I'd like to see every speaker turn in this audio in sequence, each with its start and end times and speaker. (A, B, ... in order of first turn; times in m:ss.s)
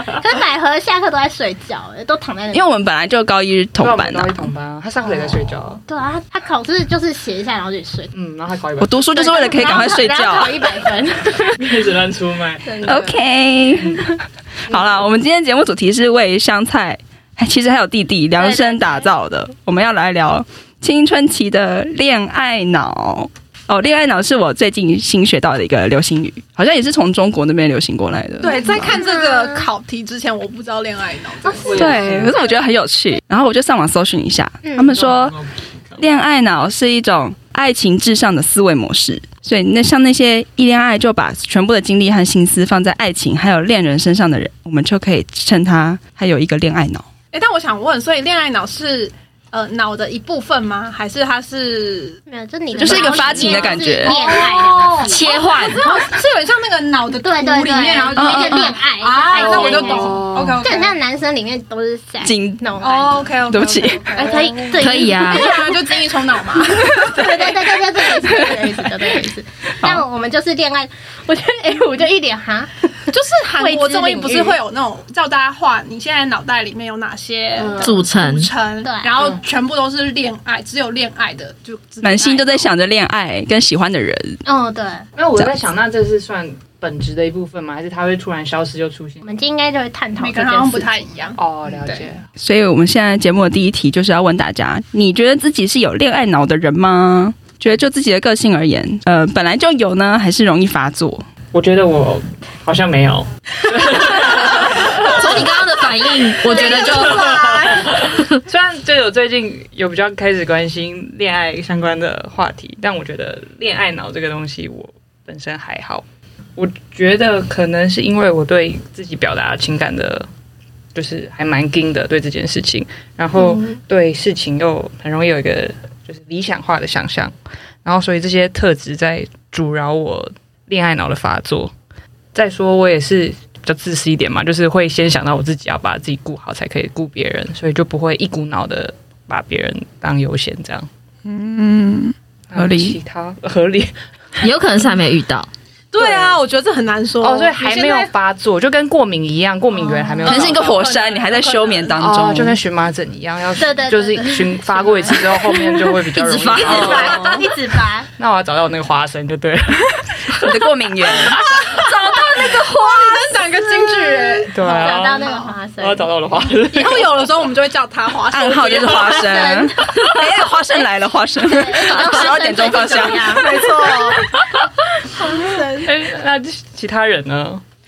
0:00.1-0:02.6 A
0:02.5-0:04.4 B
0:03.8-0:05.8 C
0:05.8-0:08.1 A
0:08.1-0:09.8 C
0:08.8-0:10.7 B
0:09.1-0:11.6 A
0:11.5-0:13.0 C
0:12.6-0:13.2 A
0:12.8-0:29.0 B
0:18.4-0:19.1 A
0:28.4-0:32.4 D
0:28.8-0:29.7 A
0:31.4-0:31.8 A
0:31.6-0:32.4 C
0:31.7-0:35.4 B
0:34.6-0:35.0 A
0:34.8-0:36.0 C
0:36.0-0:47.0 B
0:47.3-0:52.2 D
0:52.3-0:56.0 A
0:52.8-0:54.1 B
0:52.8-1:01.0 D
0:55.0-0:55.8 E
0:57.2-1:03.3 A
0:58.2-0:58.8 B
0:59.8-1:00.6 C
1:02.2-1:02.6 B
1:02.8-1:08.9 D
1:03.5-1:04.1 B
1:04.1-1:05.8 A
1:04.8-1:05.5 E
1:06.9-1:12.9 A
1:13.1-1:22.6 D
1:13.6-1:14.6 A
1:17.8-1:18.5 E
1:18.8-1:19.2 A
1:22.0-1:24.4 B
1:24.4-1:25.1 A
1:25.2-1:29.2 C
1:29.2-1:30.9 A
1:30.2-1:32.1 D
1:31.4-1:32.3 C
1:32.4-1:41.2 B
1:41.5-1:45.4 C
1:44.9-1:47.3 E
1:46.4-1:48.0 A
1:46.6-1:47.8 D
1:46.8-1:56.0 C
1:56.6-2:00.3 C
2:00.9-2:07.3 C
2:07.8-2:11.7 C
2:12.3-2:20.9 C
2:21.3-2:23.0 B
2:22.5-2:23.9 C
2:24.4-2:25.5 E
2:25.9-2:28.1 D
2:26.0-2:26.4 C
2:27.2-2:30.8 C
2:29.9-2:32.0 A
2:30.2-2:32.6 B
2:31.9-2:37.5 C
2:33.6-2:36.0 A
2:36.1-2:37.2 E
2:36.6-2:38.1 A
2:38.2-2:41.6 C
2:40.4-2:41.4 B
2:41.3-2:45.5 D
2:41.7-2:43.4 E
2:43.6-2:46.1 A
2:44.5-2:47.3 C
2:46.6-2:49.5 D
2:48.3-2:53.4 B
2:49.2-2:49.7 A
2:51.4-2:54.2 A
2:53.3-2:54.3 D
2:55.1-2:55.9 A
2:55.8-2:57.6 C